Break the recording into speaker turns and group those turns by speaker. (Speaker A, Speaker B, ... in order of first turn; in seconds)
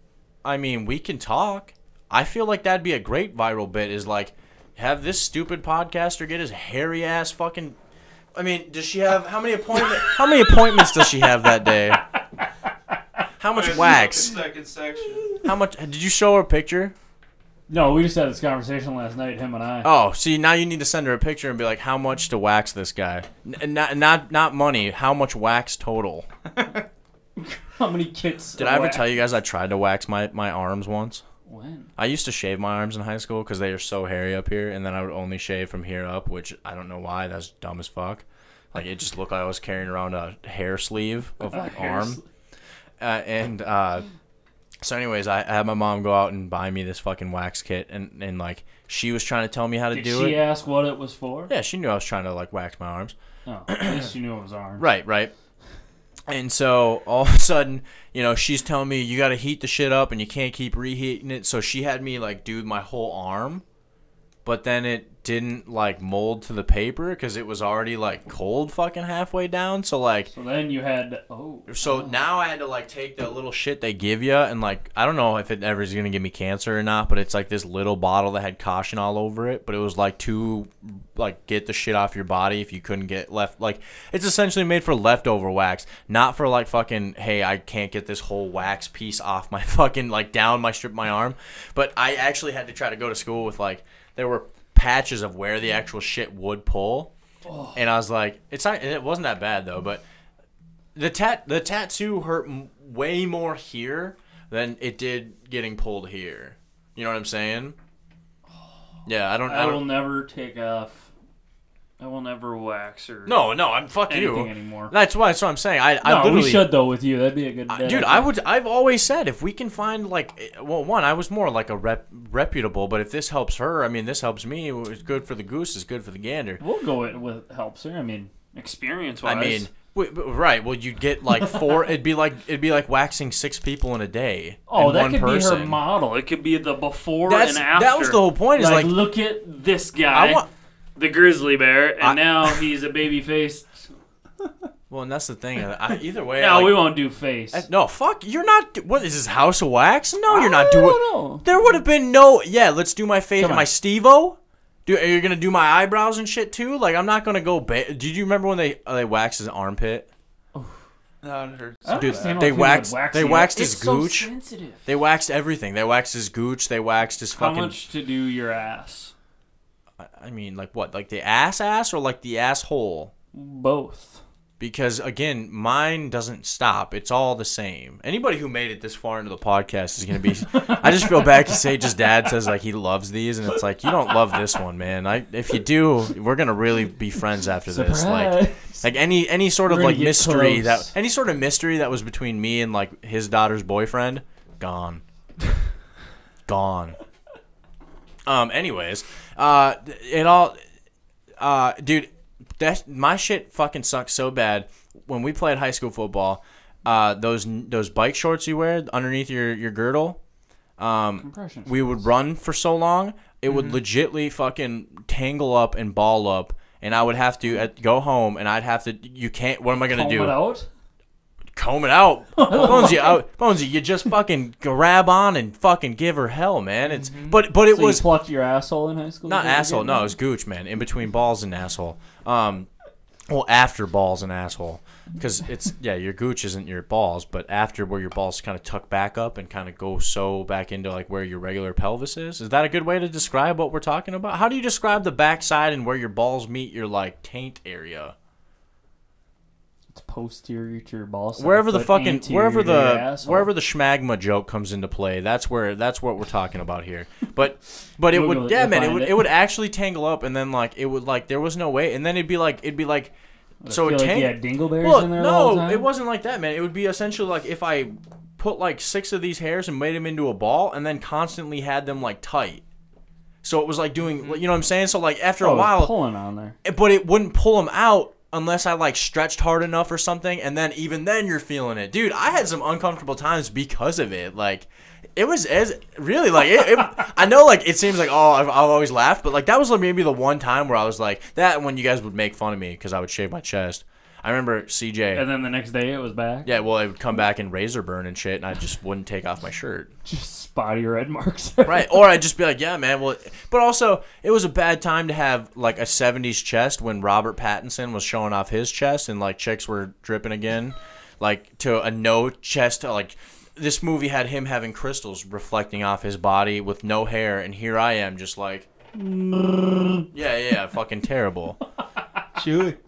Speaker A: 0.4-7.8, 8.3-12.0, 13.4-14.3, 15.4-16.9, 19.8-26.3, 28.6-31.2, 32.0-42.2, 43.0-44.1, 44.8-50.4, 51.5-53.1, 53.7-54.1, 54.8-55.3, 56.3-63.6, 64.5-70.3, 71.7-97.1, 97.7-100.0, 101.0-107.8, 109.1-109.9, 113.3-116.7, 117.7-126.6, 129.2-135.8, 137.3-139.0, 140.1-140.5, 142.0-142.6, 144.9-146.9, 147.5-160.1, 161.9-164.3, 164.9-167.8, 170.0-173.1, 174.6-195.0, 196.5-197.0, 198.3-200.6, 201.4-210.2, 210.8-220.4, 221.6-228.1, 229.3-232.7, 233.3-248.1, 251.4-263.1, 263.7-272.6, 273.4-275.9, 276.6-295.2, 296.4-299.9, 301.6-318.7, 320.1-321.6
Speaker B: 9.9-11.2, 17.7-19.9, 27.4-29.1, 31.5-31.9, 41.5-42.2, 49.9-51.5, 53.5-54.9, 70.3-72.2, 97.5-97.8, 109.5-111.1, 112.0-113.5, 114.1-114.9, 116.0-118.3, 126.6-129.7, 134.7-140.4, 141.0-143.9, 146.4-147.7, 150.3-151.5, 153.4-153.7, 161.8-164.8, 167.3-169.1, 173.3-174.2, 180.6-181.6, 183.9-184.4, 187.7-188.8, 189.7-190.9, 211.2-212.1, 219.8-220.7, 222.4-223.2, 227.6-230.1, 249.9-253.5, 258.1-259.3, 263.6-265.9, 275.4-276.6, 295.1-296.5, 300.1-302.1, 318.9-320.1
Speaker C: 13.5-15.4, 161.2-162.7, 213.5-213.8, 226.9-227.4, 274.1-274.4, 322.4-322.8